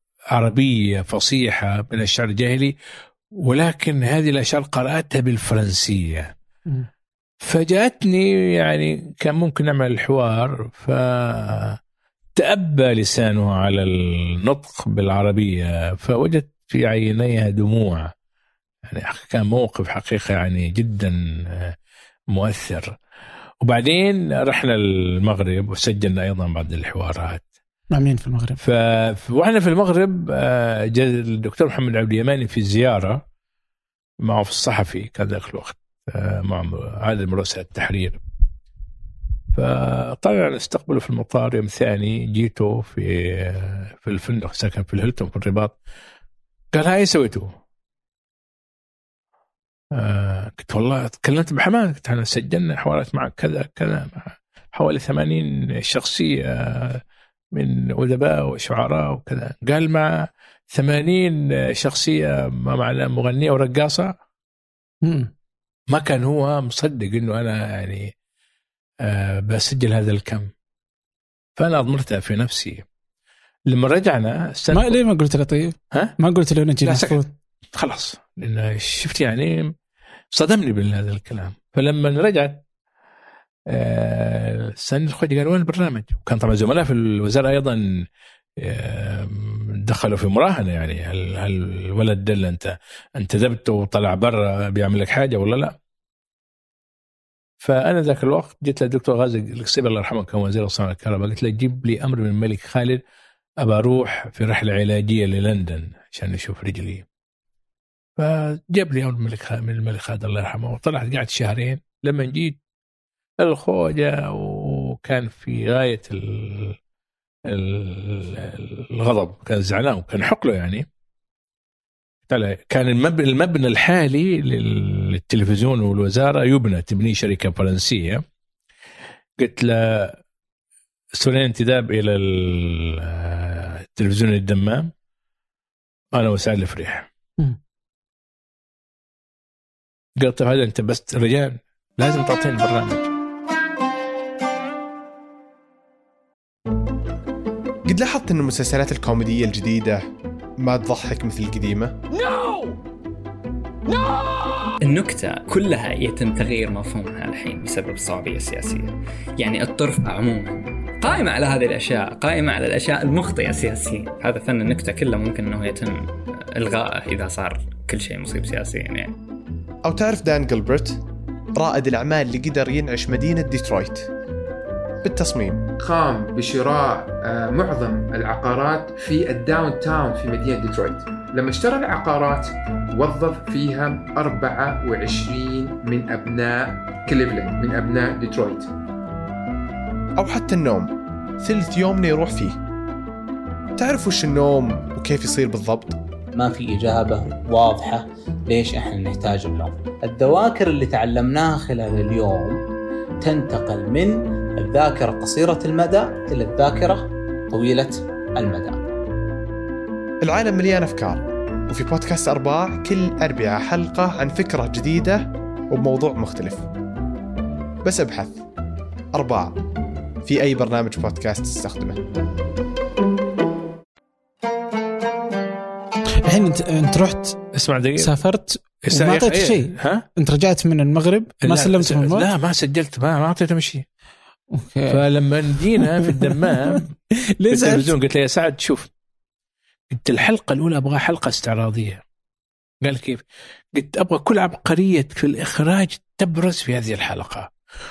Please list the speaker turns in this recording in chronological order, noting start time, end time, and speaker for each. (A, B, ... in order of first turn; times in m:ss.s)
0:00.3-0:02.7 A
0:03.4-0:06.3 A
0:07.4-0:11.8 A
0:12.4-0:18.1 A
0:18.9-0:21.7 A
0:22.3-0:23.0 A
0:23.6-0:27.5 A
0:27.9-0:28.6 B
0:28.6-0:33.2 A
0:34.2-0:38.2 A
0:39.5-0:45.8 A
0:46.7-0:47.5 A
0:50.0-0:57.0 A
0:57.6-1:04.1 A
1:05.0-1:05.3 B
1:05.9-1:08.1 A
1:09.0-1:10.5 A
1:11.6-1:12.8 A
1:13.7-1:15.0 A
1:14.7-1:17.3 B
1:16.8-1:17.2 A
1:17.7-1:19.7 A
1:20.3-1:22.6 A
1:23.7-1:27.8 A
1:28.6-1:35.8 A
1:37.6-1:43.0 A
1:43.6-1:47.0 A
1:48.2-1:52.6 A
1:53.4-1:56.8 A
1:57.5-2:00.9 A
2:02.3-2:08.2 A
2:09.4-2:10.2 A
2:11.2-2:14.9 A
2:16.1-2:17.1 A
2:20.2-2:23.1 A
2:27.9-2:30.0 C
2:30.6-2:32.0 C
2:34.8-2:49.2 D
2:49.8-2:51.0 C
2:51.6-2:54.1 C
2:55.0-2:55.7 C
2:55.8-3:08.7 E
3:10.2-3:12.6 C
3:13.8-3:16.0 C
3:16.4-3:22.6 F
3:23.2-3:28.8 F
3:30.2-3:36.7 C
3:37.8-3:38.4 C
3:39.1-3:39.6 C
3:40.2-3:42.1 C
3:46.2-3:47.4 B
3:47.5-3:48.2 A
3:48.0-3:52.3 B
3:48.9-3:50.0 A
3:51.4-3:53.8 A
3:54.5-3:55.0 B
3:54.9-3:56.9 A
3:55.8-3:56.8 B
3:57.4-3:57.9 B
3:57.5-3:58.9 A
3:59.9-4:02.0 A
4:02.8-4:03.2 A
4:03.8-4:07.5 A